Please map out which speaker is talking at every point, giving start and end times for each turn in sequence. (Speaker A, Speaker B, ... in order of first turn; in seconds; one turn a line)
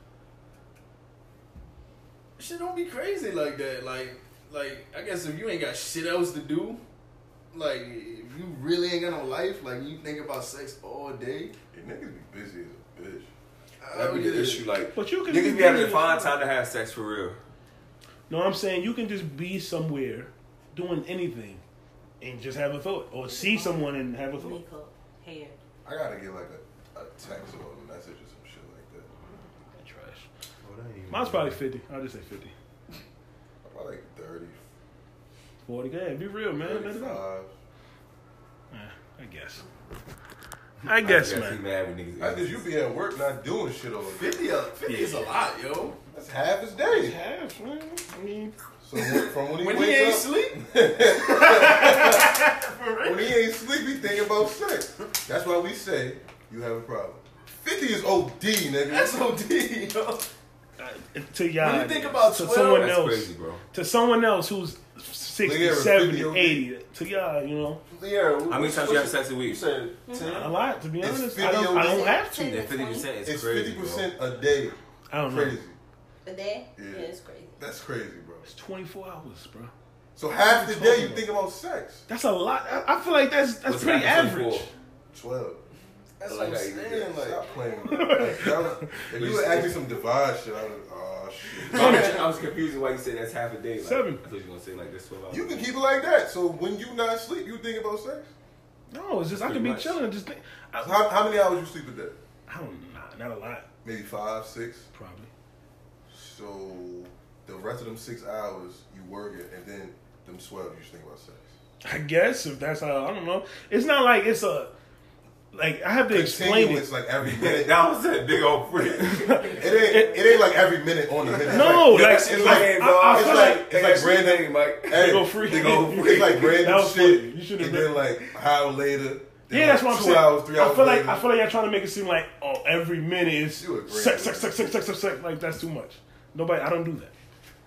Speaker A: 2.4-6.8
Speaker A: 7.5-11.5
Speaker B: 11.7-13.3
Speaker A: 13.8-14.7
Speaker C: 13.9-17.4
Speaker D: 14.9-16.4
Speaker D: 18.3-21.6
Speaker D: 22.2-24.6
Speaker E: 23.3-25.6
Speaker B: 25.8-29.1
Speaker D: 29.7-30.2
Speaker C: 30.6-31.6
Speaker D: 31.1-32.5
Speaker B: 33.6-34.6
Speaker D: 35.6-37.2
Speaker B: 36.6-37.5
Speaker D: 38.7-39.6
Speaker D: 40.8-41.6
Speaker C: 41.0-42.6
Speaker B: 42.2-44.4
Speaker A: 44.1-46.0
Speaker D: 44.9-45.2
Speaker B: 46.1-47.2
Speaker D: 46.8-48.5
Speaker B: 48.8-52.4
Speaker A: 48.9-53.4
Speaker B: 53.0-59.2
Speaker A: 58.8-60.3
Speaker D: 60.8-67.8
Speaker A: 61.6-62.9
Speaker C: 62.7-63.6
Speaker B: 65.4-66.6
Speaker A: 67.9-70.5
Speaker C: 68.5-69.6
Speaker E: 70.1-70.3
Speaker D: 70.2-72.7
Speaker B: 71.0-72.1
Speaker E: 71.7-73.1
Speaker C: 72.4-74.1
Speaker B: 73.2-75.8
Speaker D: 75.1-75.6
Speaker E: 76.2-77.6
Speaker B: 76.8-78.5
Speaker D: 78.5-79.7
Speaker B: 80.2-82.0
Speaker D: 80.4-81.3
Speaker D: 82.1-84.7
Speaker C: 83.7-84.7
Speaker B: 85.1-85.6
Speaker A: 86.2-87.5
Speaker C: 86.2-87.3
Speaker B: 87.1-92.2
Speaker D: 87.8-88.9
Speaker C: 89.1-89.8
Speaker C: 91.6-95.7
Speaker A: 91.7-92.1
Speaker D: 91.8-92.1
Speaker D: 93.8-94.2
Speaker B: 95.3-98.3
Speaker D: 98.9-101.0
Speaker C: 99.3-100.0
Speaker B: 100.8-102.2
Speaker D: 102.5-103.7
Speaker B: 103.8-104.9
Speaker D: 104.9-105.3
Speaker B: 106.1-111.5
Speaker D: 111.8-114.7
Speaker D: 115.5-116.9
Speaker B: 116.1-117.7
Speaker C: 117.2-119.6
Speaker D: 118.9-120.3
Speaker B: 119.5-131.2
Speaker C: 121.3-126.7
Speaker D: 121.5-123.7
Speaker D: 124.9-128.0
Speaker D: 129.5-137.1
Speaker B: 133.6-134.8